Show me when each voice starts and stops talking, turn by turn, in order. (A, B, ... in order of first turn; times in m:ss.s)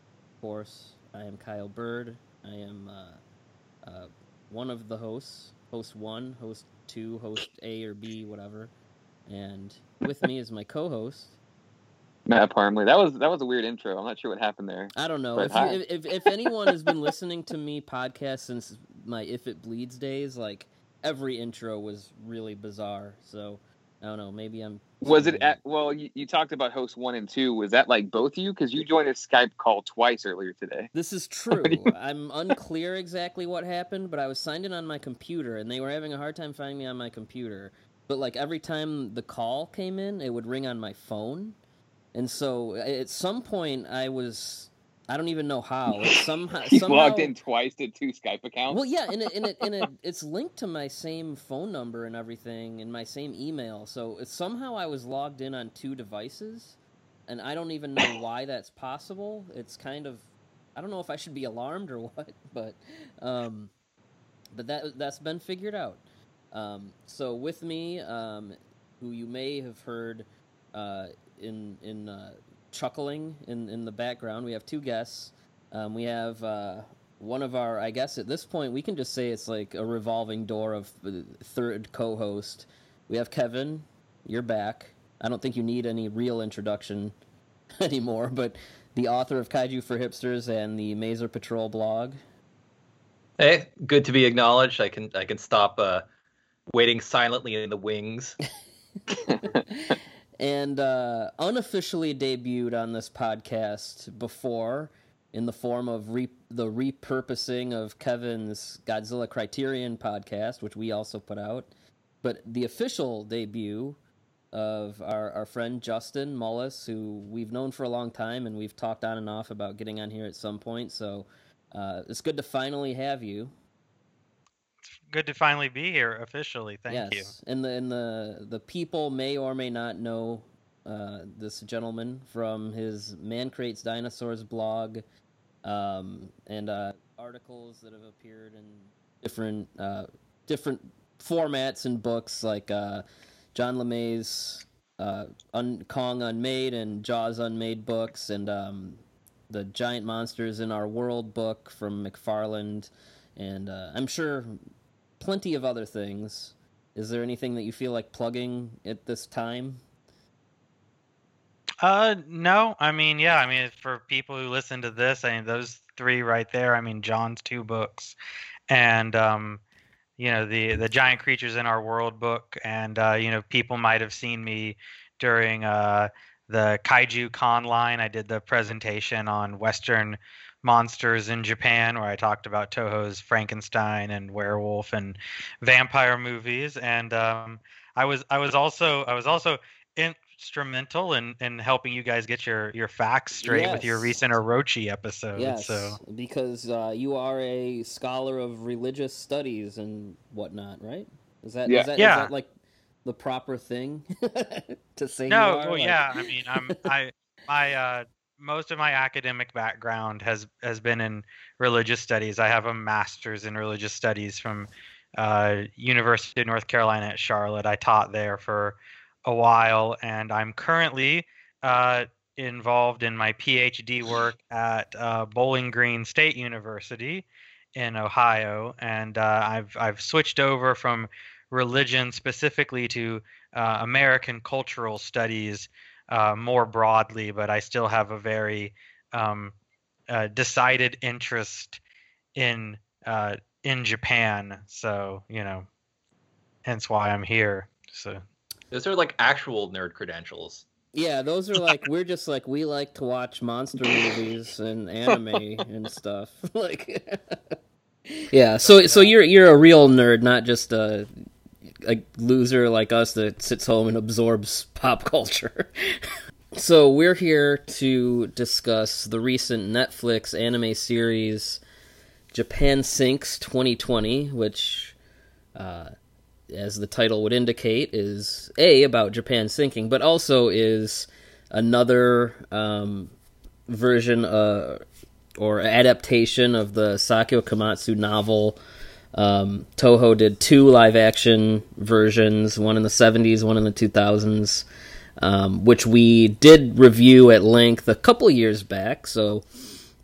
0:00.4-0:03.2 A
0:03.8-0:08.7 A
0:09.2-0:11.4 A
0:12.3-0:16.9 B
0:14.9-0:25.6 A
0:25.0-0:30.9 B
0:30.9-0:41.6 A
0:31.5-0:31.9 B
0:42.1-0:47.3 A
0:45.9-0:49.8 B
0:48.7-1:03.7 A
1:04.5-1:27.1 A
1:27.8-1:32.2 A
1:33.4-1:36.0 C
1:36.7-1:38.4 C
1:39.3-1:39.6 B
1:39.5-1:51.7 A
1:52.2-1:54.0 A
1:54.5-2:03.5 A
2:04.9-2:07.3 D
2:06.9-2:15.0 A
2:15.6-2:34.6 A
2:35.2-2:39.8 A
2:41.8-2:48.2 D
2:48.7-2:49.6 D
2:50.2-3:16.0 D
3:13.4-3:14.2 A
3:15.3-3:22.5 A
3:21.6-3:21.9 B
3:22.0-3:22.3 D
3:23.0-3:26.8 A
3:25.3-3:59.5 D
4:00.1-4:01.8 D
4:02.4-4:05.6 D
4:06.6-4:08.2 D
4:08.7-4:10.6 C
4:10.9-4:17.6 A
4:13.8-4:14.2 B
4:18.3-4:21.1 A
4:18.6-4:19.1 D
4:21.8-4:25.7 A
4:26.5-4:31.6 A
4:32.3-4:35.0 A
4:35.6-4:35.9 A
4:36.5-4:43.1 A
4:43.7-4:44.8 A
4:45.4-4:48.6 A
4:49.1-4:54.6 A
4:55.2-4:59.4 A